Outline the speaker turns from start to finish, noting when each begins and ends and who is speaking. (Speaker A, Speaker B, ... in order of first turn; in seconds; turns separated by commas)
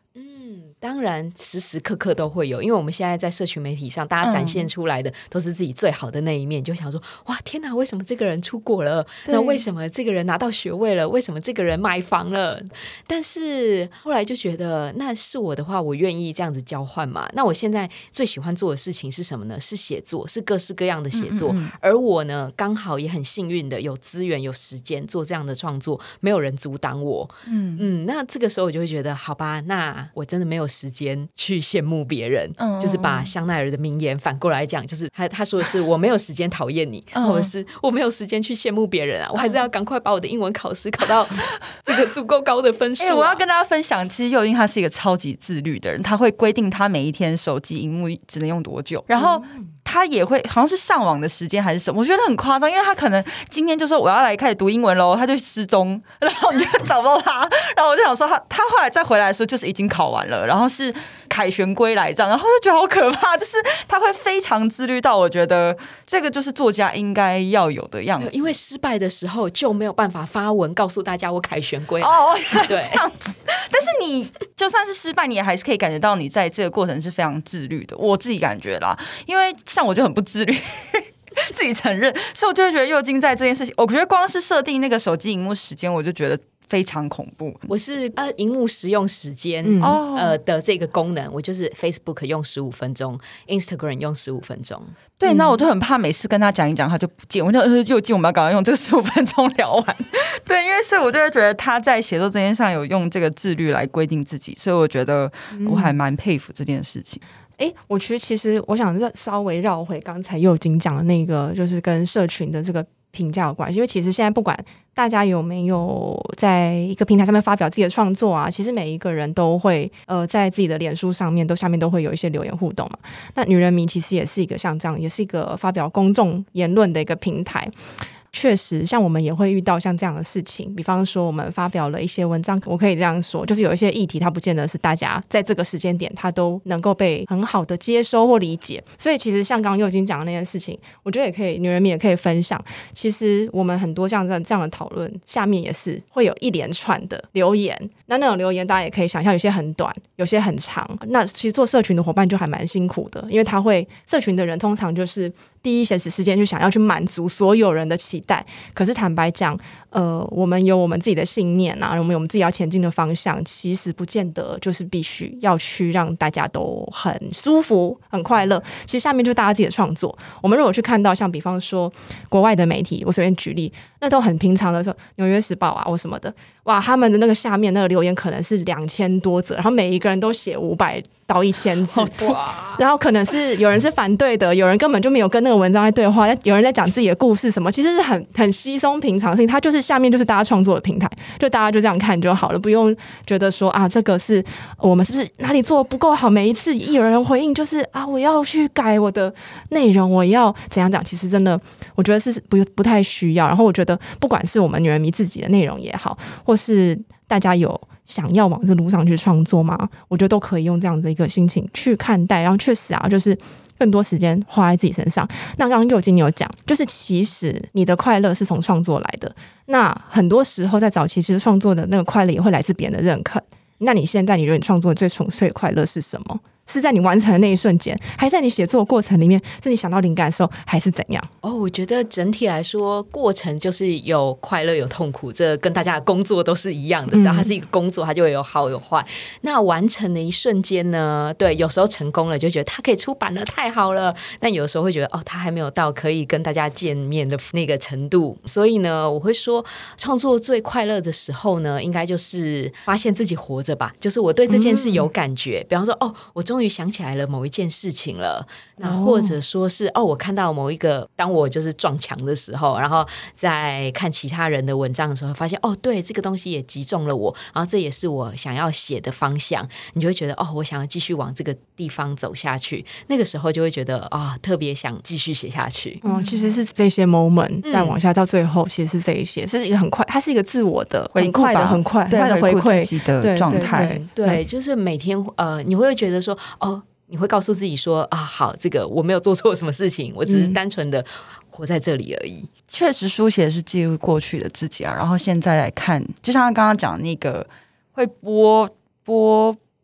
Speaker A: 0.1-43.4, Speaker B: 4.2-4.7, Speaker B: 9.3-9.6, Speaker B: 21.1-21.7, Speaker B: 27.4-27.9, Speaker B: 32.6-33.3, Speaker B: 37.1-37.5, Speaker B: 43.0-68.5, Speaker A: 68.2-73.0, Speaker B: 72.0-87.7, Speaker A: 87.7-95.0, Speaker C: 89.6-90.0, Speaker B: 89.8-90.4, Speaker B: 95.2-107.2, Speaker C: 95.2-95.6, Speaker C: 105.5-106.0, Speaker C: 107.6-127.7, Speaker C: 128.3-231.3, Speaker B: 181.9-182.8, Speaker A: 231.4-276.0, Speaker C: 237.1-237.5, Speaker B: 258.8-259.3, Speaker C: 276.0-284.4, Speaker B: 276.1-276.5, Speaker A: 277.6-277.9, Speaker B: 281.1-284.0, Speaker A: 283.5-292.5, Speaker C: 290.3-290.6, Speaker B: 292.7-299.6